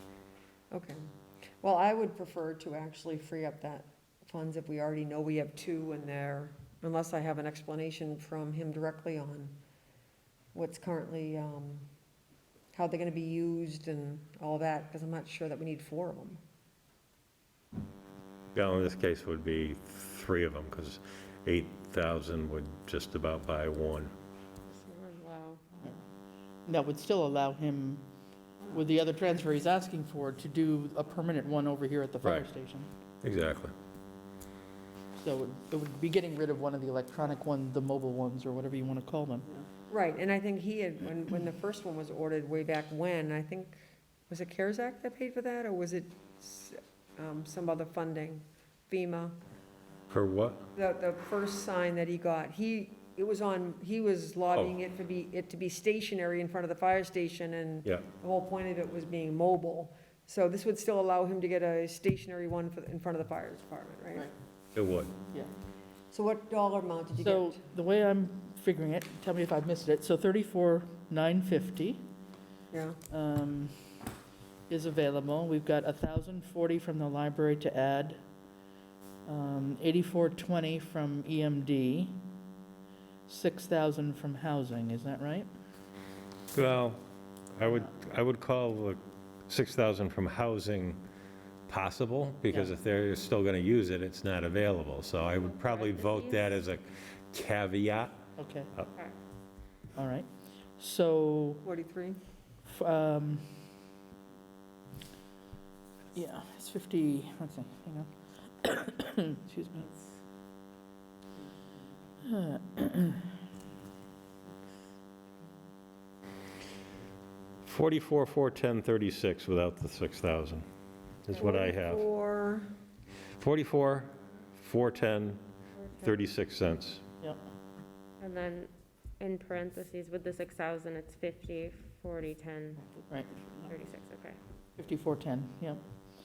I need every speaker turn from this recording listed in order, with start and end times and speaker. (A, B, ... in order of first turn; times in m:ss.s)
0:00.7-0:01.0 A
0:01.6-0:09.6 A
0:10.5-0:11.9 A
0:12.7-0:16.4 A
0:18.5-0:24.1 B
0:24.7-0:25.6 C
0:26.7-0:28.0 D
0:28.7-0:32.9 D
0:32.2-0:32.5 B
0:33.2-0:33.8 B
0:35.2-0:39.6 D
0:39.9-0:49.4 A
0:50.1-0:50.7 B
0:50.8-1:04.3 A
1:04.7-1:05.1 B
1:06.1-1:07.6 A
1:07.2-1:12.1 D
1:12.7-1:13.0 A
1:13.1-1:13.8 D
1:14.7-1:18.2 D
1:19.3-1:22.2 D
1:23.3-1:25.5 D
1:26.5-1:27.0 B
1:27.5-1:31.0 B
1:31.7-1:38.2 B
1:35.4-1:36.6 C
1:38.4-1:38.7 D
1:40.0-1:40.3 D
1:40.8-1:41.6 D
1:41.6-1:42.2 A
1:42.7-1:43.4 D
1:46.2-1:48.1 D
1:48.6-1:49.9 D
1:52.2-1:53.3 D
1:57.6-2:00.6 B
2:01.2-2:02.0 B
2:01.3-2:02.7 A
2:03.4-2:05.4 B
2:05.8-2:06.2 C
2:06.0-2:07.0 B
2:08.2-2:13.1 C
2:13.0-2:13.7 D
2:13.7-2:14.4 C
2:14.8-2:15.8 D